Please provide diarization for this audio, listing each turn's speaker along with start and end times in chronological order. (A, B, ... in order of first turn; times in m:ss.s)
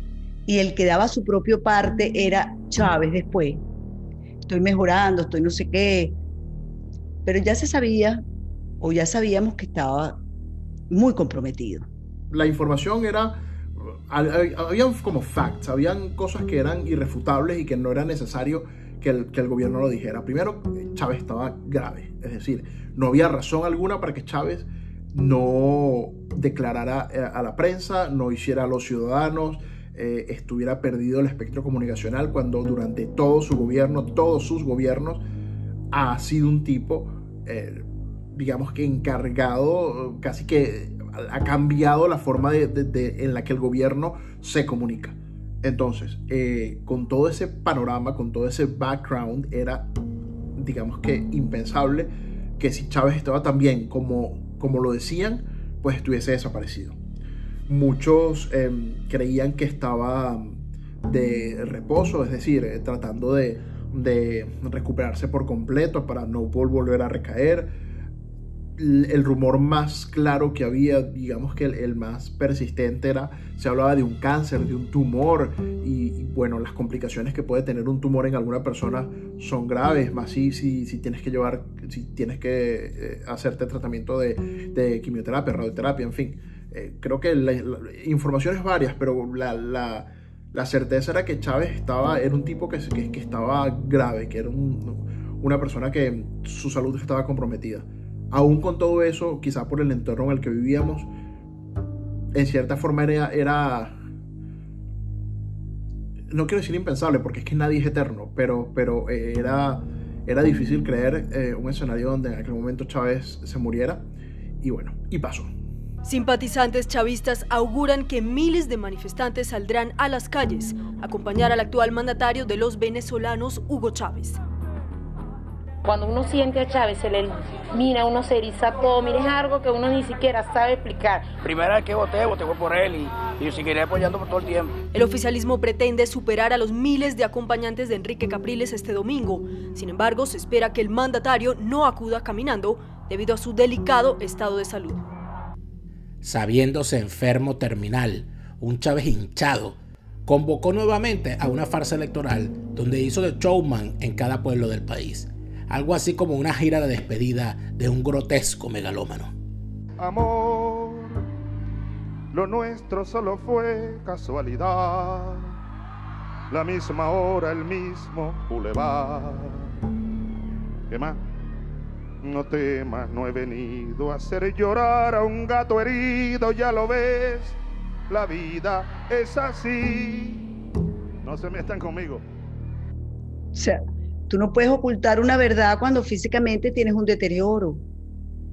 0:00.5-0:03.6 A
0:04.5-0:06.2 A
0:07.2-0:08.2 A
0:08.8-0:10.2 A
0:10.9-0:11.9 A
0:12.3-0:35.2 B
0:35.9-0:49.9 B
0:50.6-0:57.0 B
0:57.7-1:07.7 B
1:08.8-1:41.1 B
1:42.3-1:44.0 B
1:46.3-1:54.1 B
1:54.6-1:55.5 B
1:56.0-2:04.4 C
2:05.8-2:11.4 D
2:11.4-2:14.8 E
2:14.9-2:25.0 C
2:26.2-2:39.3 F
2:40.0-2:41.2 G
2:42.3-2:45.6 G
2:46.5-2:49.7 G
2:50.9-2:51.2 G
2:52.2-3:00.4 G
3:01.2-3:02.2 G
3:03.6-3:07.8 A